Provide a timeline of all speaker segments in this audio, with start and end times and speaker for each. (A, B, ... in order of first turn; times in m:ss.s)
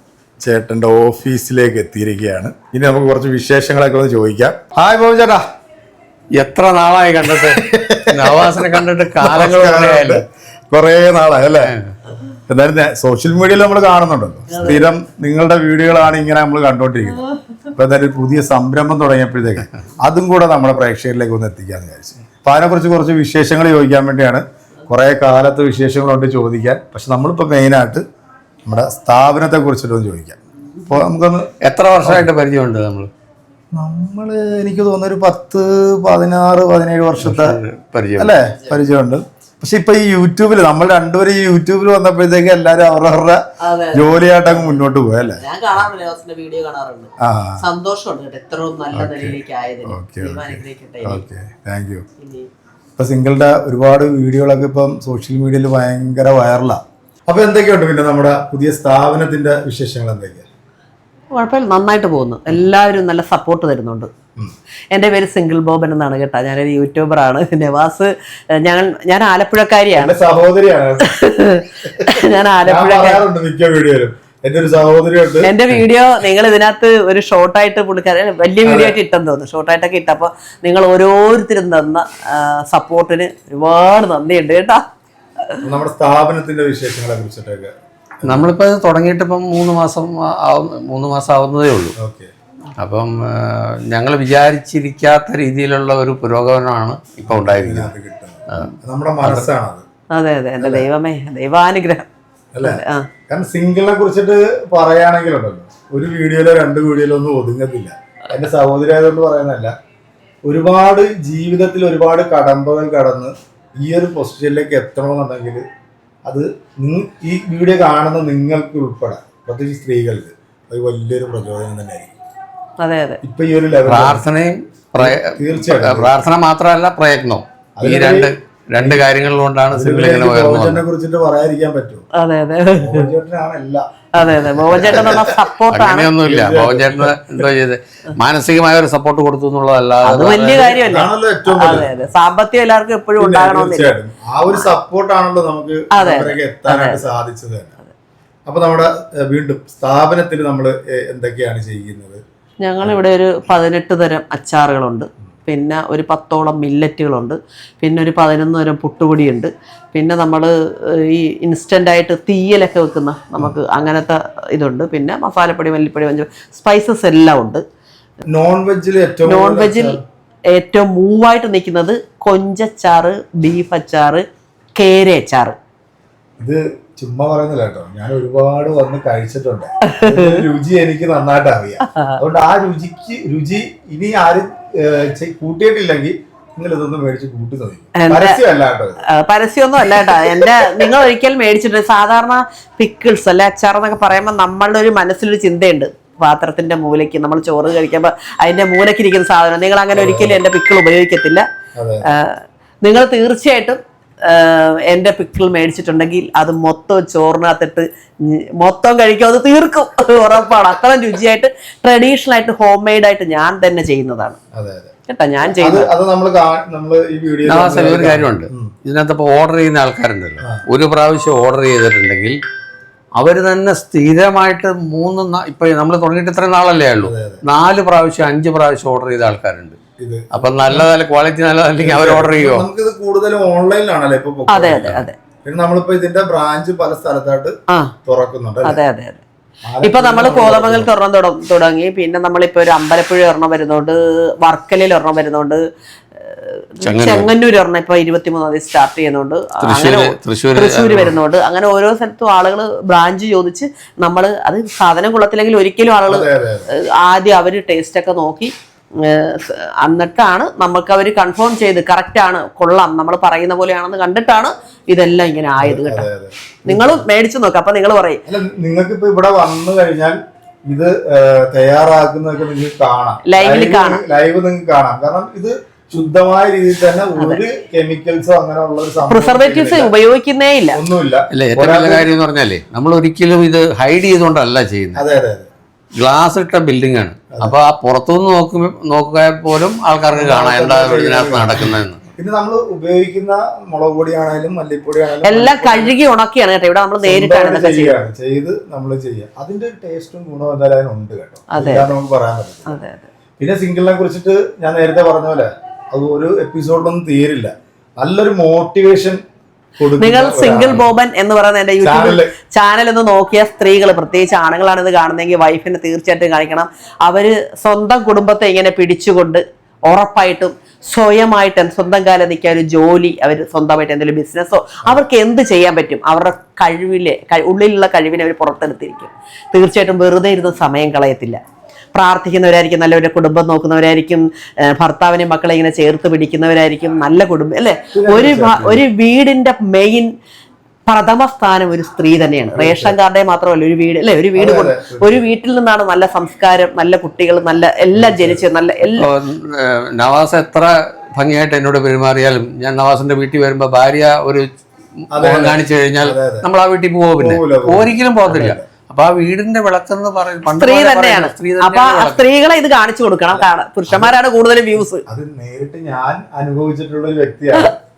0:00.4-0:05.4 A
0:06.4-0:10.2 B
0:07.3-0:11.8 A
0:11.6-0:11.9 B
0:12.4-0:28.0 A
0:14.5-0:14.9 C
0:28.7-0:31.5 A
0:31.6-0:33.1 B
0:33.7-0:37.6 A
0:37.2-0:38.4 B
0:38.2-0:43.4 A
0:43.6-0:51.2 C
0:43.9-0:45.4 A
0:47.2-0:47.6 A
0:48.9-0:52.1 A
0:52.2-0:52.5 C
0:53.0-1:00.5 A
1:01.3-1:04.1 C
1:04.9-1:10.2 C
1:10.0-1:11.2 A
1:11.0-1:13.2 C
1:11.9-1:15.6 A
1:15.4-1:24.8 C
1:18.6-1:19.0 A
1:25.6-1:28.5 A
1:28.2-1:32.0 B
1:32.0-1:32.3 A
1:32.8-1:37.9 B
1:37.3-1:39.8 A
1:38.5-1:39.5 B
1:40.1-1:42.1 C
1:40.6-1:40.9 A
1:42.5-1:49.7 A
1:42.6-1:43.1 C
1:50.4-1:55.6 A
1:56.3-2:02.1 A
2:02.8-2:03.2 C
2:03.2-2:04.2 A
2:03.9-2:10.8 B
2:05.0-2:06.2 A
2:07.8-2:09.0 A
2:09.7-2:12.0 A
2:12.2-2:13.1 C
2:12.8-2:15.4 A
2:14.2-2:16.2 C
2:14.8-2:20.8 B
2:16.2-2:17.5 A
2:20.0-2:23.9 C
2:20.2-2:22.1 A
2:23.2-2:27.7 A
2:26.0-2:27.0 C
2:28.5-2:32.2 A
2:32.6-2:47.6 C
2:48.3-2:50.0 A
2:49.3-2:50.0 C
2:50.5-2:54.2 C
2:54.8-2:55.6 C
2:56.4-3:09.0 A
2:59.9-3:00.4 C
3:08.0-3:08.4 C
3:09.1-3:21.4 C
3:09.8-3:11.0 A
3:19.9-3:20.4 A
3:21.8-3:22.1 A
3:22.1-3:34.4 C
3:34.5-3:34.9 A
3:35.1-3:35.9 C
3:35.6-3:38.7 A
3:37.5-3:42.4 B
3:43.2-3:49.8 B
3:47.0-3:47.4 A
3:50.0-3:50.9 A
3:50.3-3:52.7 B
3:51.8-3:57.5 A
3:54.5-3:55.2 C
3:54.8-3:55.1 B
3:58.1-3:58.8 A
3:58.6-3:59.2 C
3:59.7-4:00.9 A
3:59.8-4:05.6 C
4:06.2-4:26.1 C
4:06.8-4:07.3 B
4:09.6-4:11.2 B
4:16.1-4:16.7 A
4:25.6-4:27.1 A
4:26.7-4:28.2 C
4:28.3-4:39.9 A
4:33.3-4:34.0 C
4:39.1-4:40.8 C
4:40.7-4:42.1 A
4:41.3-4:45.0 B
4:45.0-4:45.5 A
4:46.0-4:52.0 B
4:50.1-4:56.0 A
4:55.2-4:58.0 C
4:57.0-5:02.8 A
5:01.6-5:01.9 C
5:02.7-5:03.1 C
5:03.4-5:09.2 A
5:09.8-5:10.9 A
5:10.0-5:31.4 C
5:11.8-5:12.3 A
5:31.9-5:40.1 C
5:37.9-5:38.8 A
5:40.9-5:49.1 C
5:42.5-5:43.0 A
5:44.4-5:45.2 A
5:47.9-5:48.5 A
5:49.0-5:54.5 B
5:55.1-5:56.5 A
5:55.2-6:02.2 B
5:57.2-5:58.7 A
6:00.5-6:05.0 C
6:03.3-6:04.2 A
6:04.9-6:07.8 A